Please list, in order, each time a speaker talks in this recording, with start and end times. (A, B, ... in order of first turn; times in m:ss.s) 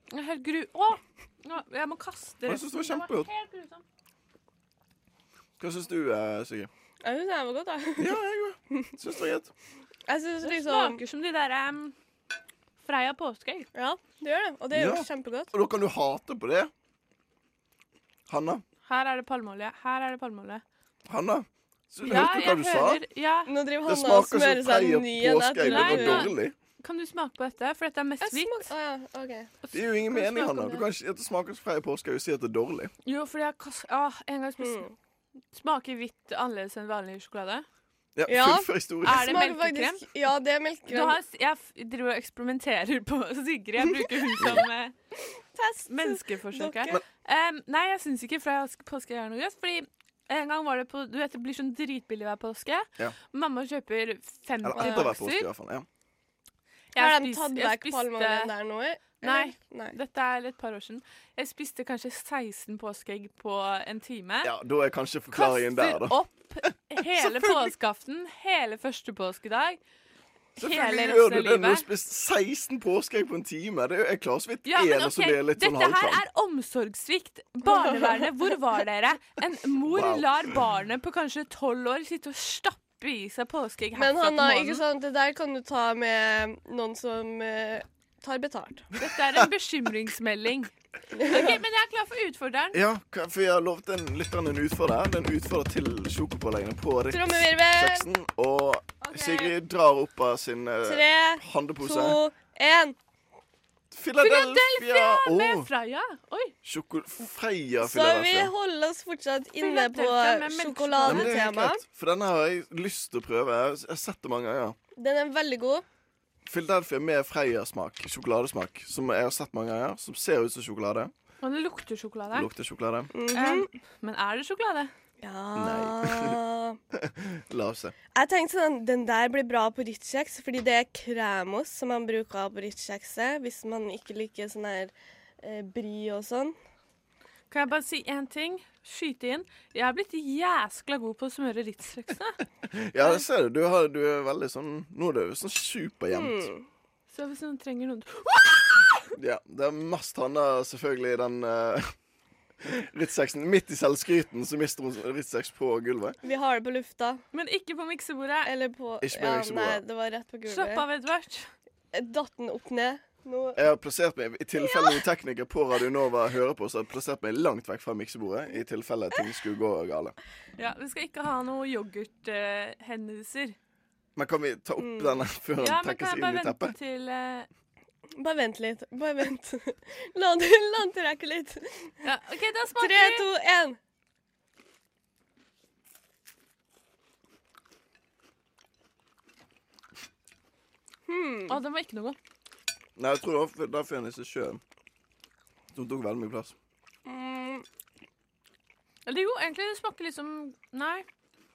0:00.1-0:03.8 A
0:02.5-0:03.3 B
0:05.6-0:06.7 B
0:07.0-0:08.2 C
0:08.0-0:09.5 B
0:10.1-0:11.0 C
0:10.4-0:11.9 A
0:12.8-0:13.7 A
0:13.7-0:15.5 C
0:14.7-0:16.7 B
0:18.3-0:18.6 B
0:18.8-0:20.6 A
0:21.1-0:23.0 B
0:22.0-0:23.5 A
0:23.5-0:26.3 C
0:23.8-0:26.5 B
0:25.6-0:28.7 A
0:28.2-0:29.5 C
0:29.6-0:30.8 A
0:29.7-0:32.9 B
0:33.0-0:34.9 A
0:34.6-0:34.9 C
0:35.5-0:37.6 A
0:38.2-0:39.4 B
0:38.3-0:41.2 C
0:39.0-0:40.0 A
0:40.9-0:44.9 A
0:45.5-0:47.0 C
0:45.9-0:55.5 A
0:54.6-0:55.8 B
0:54.7-0:55.1 C
0:56.9-0:58.5 A
0:57.0-1:00.0 C
0:59.2-1:04.5 A
1:04.4-1:06.2 B
1:05.3-1:09.8 A
1:07.2-1:07.7 B
1:10.6-1:11.9 A
1:10.6-1:16.2 B
1:14.6-1:24.8 A
1:17.6-1:18.3 C
1:19.9-1:20.5 B
1:23.9-1:28.9 C
1:29.0-1:30.7 A
1:31.2-1:31.6 C
1:31.2-1:32.8 A
1:32.7-1:42.2 B
1:37.1-1:38.1 C
1:39.0-1:39.6 A
1:40.8-1:43.0 C
1:43.9-1:45.7 B
1:44.2-1:46.5 A
1:46.6-1:48.5 B
1:47.8-1:51.8 C
1:49.6-1:51.4 A
1:51.0-1:54.8 B
1:55.0-1:55.8 C
1:56.5-2:01.1 B
2:01.4-2:02.5 A
2:02.3-2:03.1 B
2:03.1-2:03.7 C
2:03.3-2:04.9 A
2:05.2-2:06.8 C
2:05.5-2:06.4 B
2:06.9-2:07.9 B
2:08.1-2:16.5 C
2:17.5-2:22.4 A
2:22.6-2:26.5 B
2:26.1-2:26.6 C
2:27.1-2:28.8 A
2:29.2-2:31.9 B
2:32.6-2:36.2 B
2:36.2-2:37.2 C
2:37.3-2:38.5 A
2:38.4-2:40.8 C
2:39.0-2:39.8 B
2:40.5-2:41.5 A
2:41.9-2:43.6 C
2:43.6-2:50.1 B
2:44.6-2:45.0 C
2:50.6-2:53.5 A
2:54.2-2:56.7 B
2:54.8-2:55.2 C
2:55.6-2:57.5 A
2:58.2-3:01.9 C
3:02.0-3:03.3 A
3:02.8-3:03.8 C
3:11.1-3:11.6 C
3:11.5-3:12.2 A
3:13.0-3:14.6 B
3:15.7-3:16.5 B
3:17.0-3:17.6 C
3:19.0-3:21.0 A